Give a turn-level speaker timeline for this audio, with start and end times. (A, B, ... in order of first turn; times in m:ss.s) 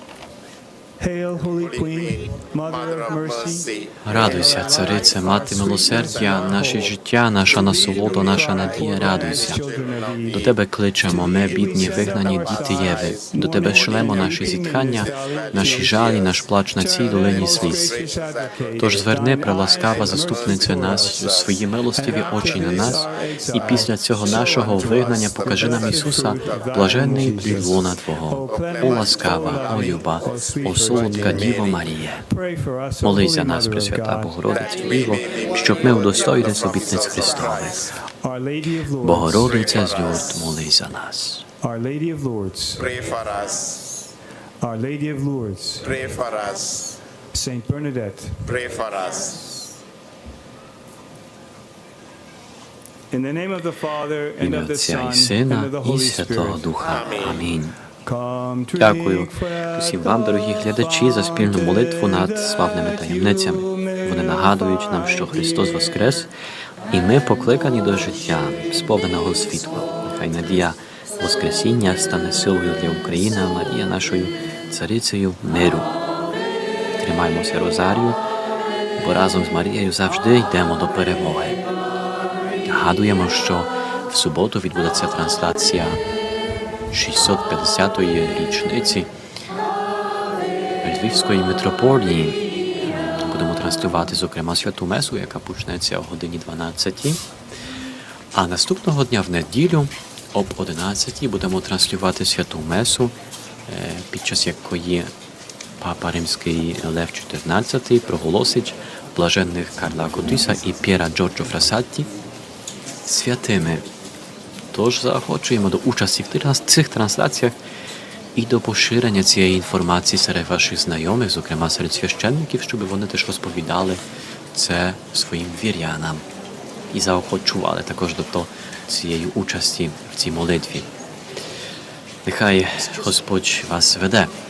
0:01.0-0:06.9 A
0:01.6-0:06.9 B
0:04.0-0:09.6 C
0:07.5-0:10.5 B
0:07.5-0:10.5 A
0:10.3-0:18.0 C
0:11.0-0:21.4 A
0:11.1-0:27.5 B
0:18.8-0:32.3 C
0:21.9-0:34.4 A
0:28.4-0:31.8 B
0:33.0-0:37.9 C
0:34.5-0:38.0 B
0:38.0-0:40.0 A
0:39.0-0:41.4 C
0:39.3-0:40.6 B
0:41.6-0:42.9 A
0:42.8-0:43.9 B
0:44.6-0:45.9 A
0:45.8-0:47.0 B
0:47.3-0:48.5 A
0:48.5-0:49.5 B
0:53.1-0:57.0 A
0:54.4-0:57.8 C
0:56.8-0:57.4 B
0:58.0-1:06.0 A
0:58.8-1:06.3 C
1:06.9-1:15.9 C
1:17.0-1:18.2 C
1:19.0-1:21.6 C
1:22.6-1:26.0 C
1:26.9-1:29.1 C
1:30.8-1:37.2 C
1:38.3-1:43.1 C
1:43.7-1:45.1 C
1:45.8-1:52.1 C
1:53.0-1:53.8 C
1:54.7-1:57.6 C
1:58.3-2:04.0 C
2:04.5-2:06.2 C
2:06.9-2:10.9 C
2:12.2-2:14.3 C